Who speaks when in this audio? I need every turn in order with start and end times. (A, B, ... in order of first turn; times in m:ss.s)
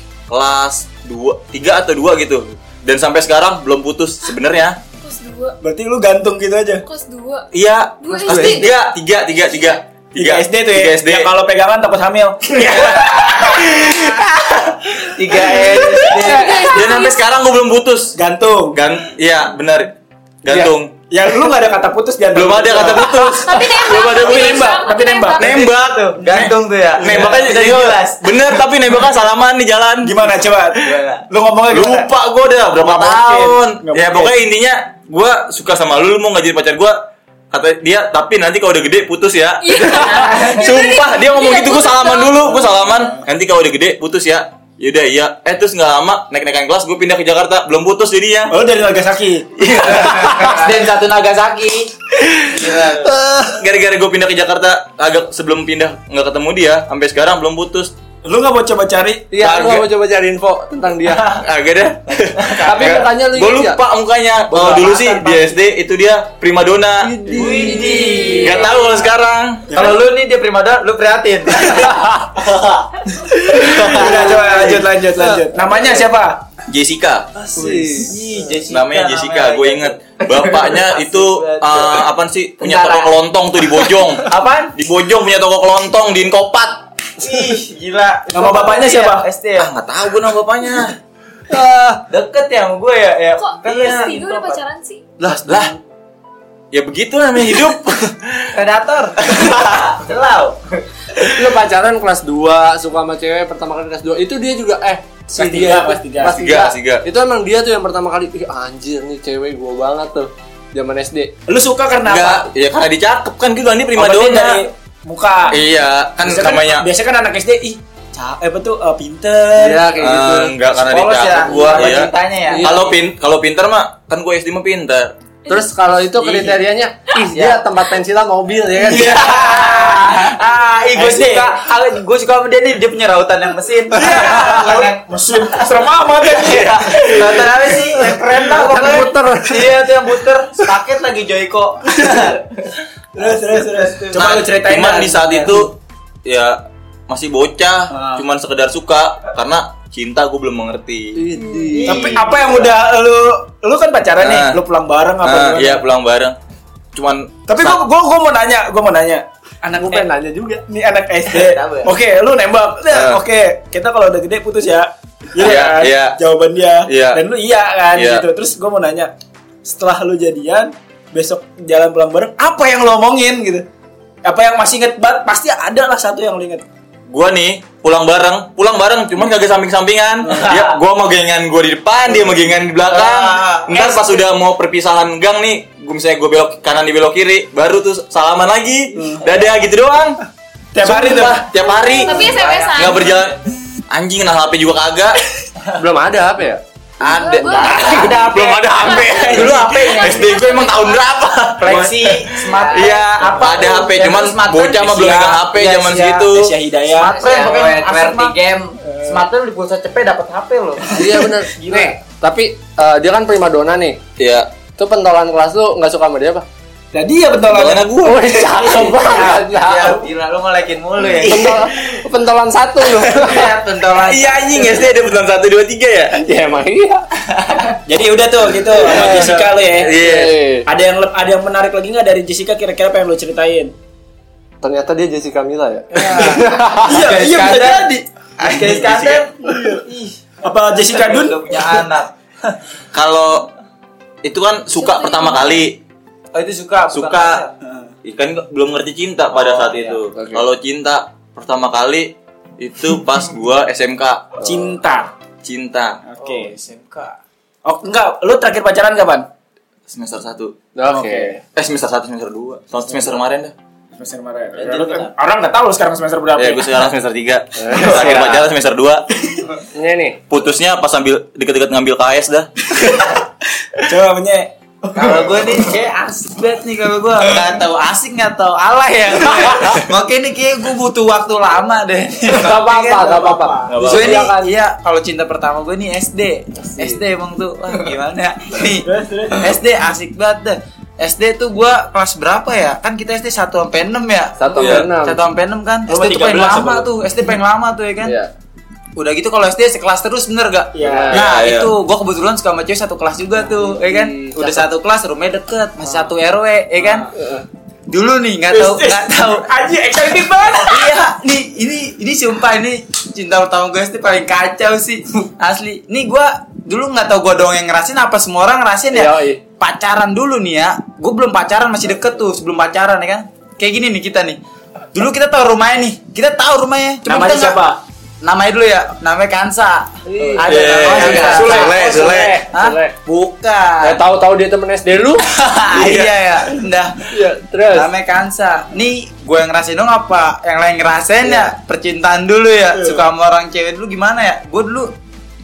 0:00.3-0:04.8 A
0:05.0-0:05.6 B
0:05.6-0:06.8 C
0:06.8-0:07.5 B
0:07.5-0:11.3 A
0:08.0-0:08.7 B
0:08.3-0:08.6 C
0:10.2-0:16.1 C
0:13.1-0:13.7 D
0:15.1-0:16.7 D
0:16.1-0:17.2 B
0:16.4-0:16.7 E
0:16.6-0:18.2 A
0:18.2-0:18.8 C
0:18.7-0:20.9 A
0:20.5-0:25.6 C
0:22.3-0:24.8 A
0:23.1-0:25.6 B
0:25.4-0:28.2 D
0:25.4-0:30.3 A
0:26.2-0:27.7 C
0:30.0-0:32.1 C
0:30.8-0:31.3 D
0:31.7-0:48.6 A
0:32.8-0:34.3 C
0:39.6-0:42.6 B
0:42.5-0:43.2 C
0:48.5-0:50.6 C
0:49.6-0:50.6 A
0:50.0-0:51.9 D
0:52.5-0:53.1 D
0:52.6-0:53.5 C
0:53.4-0:57.9 A
0:58.2-0:59.3 C
0:59.3-1:01.4 E
0:59.4-0:59.9 A
1:01.2-1:07.3 A
1:02.6-1:03.8 E
1:04.5-1:05.5 C
1:07.0-1:08.4 E
1:07.3-1:08.7 D
1:07.4-1:07.8 C
1:08.4-1:09.7 A
1:09.7-1:10.0 C
1:09.7-1:12.7 D
1:13.3-1:16.4 C
1:13.5-1:14.7 D
1:15.2-1:15.4 E
1:16.7-1:17.4 A
1:17.5-1:18.2 E
1:17.6-1:18.0 C
1:17.9-1:22.0 D
1:18.7-1:26.8 A
1:22.6-1:23.1 D
1:24.2-1:24.7 D
1:27.2-1:29.7 D
1:28.3-1:29.2 C
1:29.6-1:31.0 A
1:31.6-1:34.6 D
1:33.4-1:35.0 B
1:35.2-1:35.8 D
1:35.2-1:35.7 A
1:36.7-1:38.5 A
1:38.5-1:40.6 D
1:41.3-1:51.3 E
1:45.3-1:46.3 C
1:46.2-1:47.0 A
1:51.5-1:52.5 C
1:52.0-1:54.6 A
1:53.9-1:55.6 C
1:55.5-1:56.9 A
1:56.2-1:59.9 C
1:59.5-2:00.5 E
2:00.0-2:05.1 A
2:00.8-2:02.7 D
2:02.5-2:03.0 E
2:05.4-2:05.7 B
2:05.5-2:10.2 E
2:06.2-2:06.6 A
2:07.3-2:07.6 D
2:08.8-2:22.4 D
2:09.0-2:10.2 C
2:10.9-2:11.6 C
2:13.9-2:19.0 C
2:18.3-2:19.8 E
2:22.0-2:22.4 C
2:23.1-2:25.7 C
2:24.1-2:31.2 A
2:31.1-2:32.1 E
2:31.4-2:31.8 B
2:31.7-2:32.7 D
2:31.8-2:35.8 C
2:34.2-2:34.6 A
2:35.2-2:36.4 A
2:36.9-2:37.8 A
2:37.5-2:40.1 C
2:39.6-2:40.6 E
2:40.7-2:49.1 C
2:41.3-2:41.9 D
2:42.9-2:43.2 A
2:45.4-2:46.2 A
2:46.8-2:47.2 A
2:47.9-2:48.2 A
2:49.6-2:53.6 C
2:54.2-2:56.6 C
2:57.1-3:10.2 A
3:02.1-3:02.4 C
3:02.9-3:04.2 D
3:08.9-3:09.3 C
3:10.7-3:11.5 C
3:10.8-3:13.3 A
3:11.9-3:13.6 D
3:12.0-3:13.2 B
3:13.9-3:15.2 A
3:15.8-3:16.6 E
3:17.0-3:26.5 A
3:17.0-3:21.2 B
3:17.4-3:18.1 C
3:17.6-3:20.2 D
3:17.7-3:18.1 E
3:21.6-3:26.2 D
3:21.6-3:21.9 C
3:22.5-3:23.0 F
3:26.2-3:27.2 C
3:27.0-3:28.3 D
3:27.0-3:28.8 F
3:28.8-3:29.2 C
3:29.0-3:31.0 D
3:30.9-3:31.9 C
3:30.9-3:34.0 E
3:34.2-3:34.5 A
3:34.8-3:36.4 E
3:36.9-3:37.9 C
3:37.5-3:39.0 A
3:38.0-3:40.0 E
3:38.5-3:39.4 C
3:39.1-3:41.6 D
3:41.0-3:41.4 C
3:41.2-3:43.5 E
3:43.1-3:44.8 D
3:44.0-3:46.3 A
3:46.2-3:47.1 E
3:47.5-3:47.8 D
3:47.8-3:50.0 C
3:48.9-3:50.4 A
3:48.9-3:49.4 E
3:50.0-3:50.7 E
3:50.6-3:53.7 C
3:54.6-3:57.1 E
3:55.9-4:00.2 D
3:56.1-3:58.7 C
3:58.6-3:59.2 A
3:59.5-3:59.8 C
4:00.4-4:01.8 C
4:00.7-4:02.6 D
4:02.9-4:03.5 A
4:04.2-4:05.8 A
4:04.8-4:05.7 B
4:06.3-4:07.5 D
4:06.9-4:07.4 A
4:08.0-4:14.3 A
4:09.4-4:10.0 D
4:10.1-4:10.5 E
4:14.4-4:14.8 E
4:14.4-4:15.1 C
4:15.4-4:16.0 A
4:16.0-4:16.5 C
4:16.2-4:17.2 D
4:17.6-4:19.3 C
4:19.9-4:20.6 A
4:20.7-4:21.4 E
4:20.9-4:21.2 C
4:21.5-4:23.5 A
4:24.0-4:26.8 C
4:24.6-4:25.1 D
4:26.4-4:29.0 A
4:27.6-4:28.5 E
4:27.8-4:28.2 C
4:29.3-4:29.5 C
4:29.7-4:30.2 E
4:30.3-4:32.5 A
4:33.8-4:35.6 C
4:34.9-4:43.3 D
4:42.3-4:44.5 E
4:42.7-4:43.8 C
4:43.7-4:44.2 A
4:43.8-4:58.2 D
4:46.6-4:47.0 E
4:48.6-4:49.6 C
4:54.4-4:55.2 E
4:54.6-4:54.9 A
4:55.9-4:56.9 C
4:58.0-4:58.3 E
4:59.0-5:07.1 D
5:00.8-5:01.2 C
5:00.8-5:01.2 E
5:01.1-5:01.7 A
5:03.4-5:04.6 E
5:06.8-5:07.1 C
5:07.1-5:07.4 E
5:07.9-5:09.5 D
5:08.5-5:10.9 C
5:10.6-5:24.4 D
5:18.9-5:19.4 E
5:24.9-5:27.6 D
5:27.0-5:27.8 C
5:28.2-5:34.0 D
5:30.0-5:33.0 E
5:30.4-5:32.4 A
5:31.0-5:32.1 C
5:33.8-5:35.2 E
5:35.3-5:37.1 D
5:37.1-5:37.9 E
5:37.7-5:44.9 D
5:41.2-5:41.5 E
5:42.7-5:43.0 C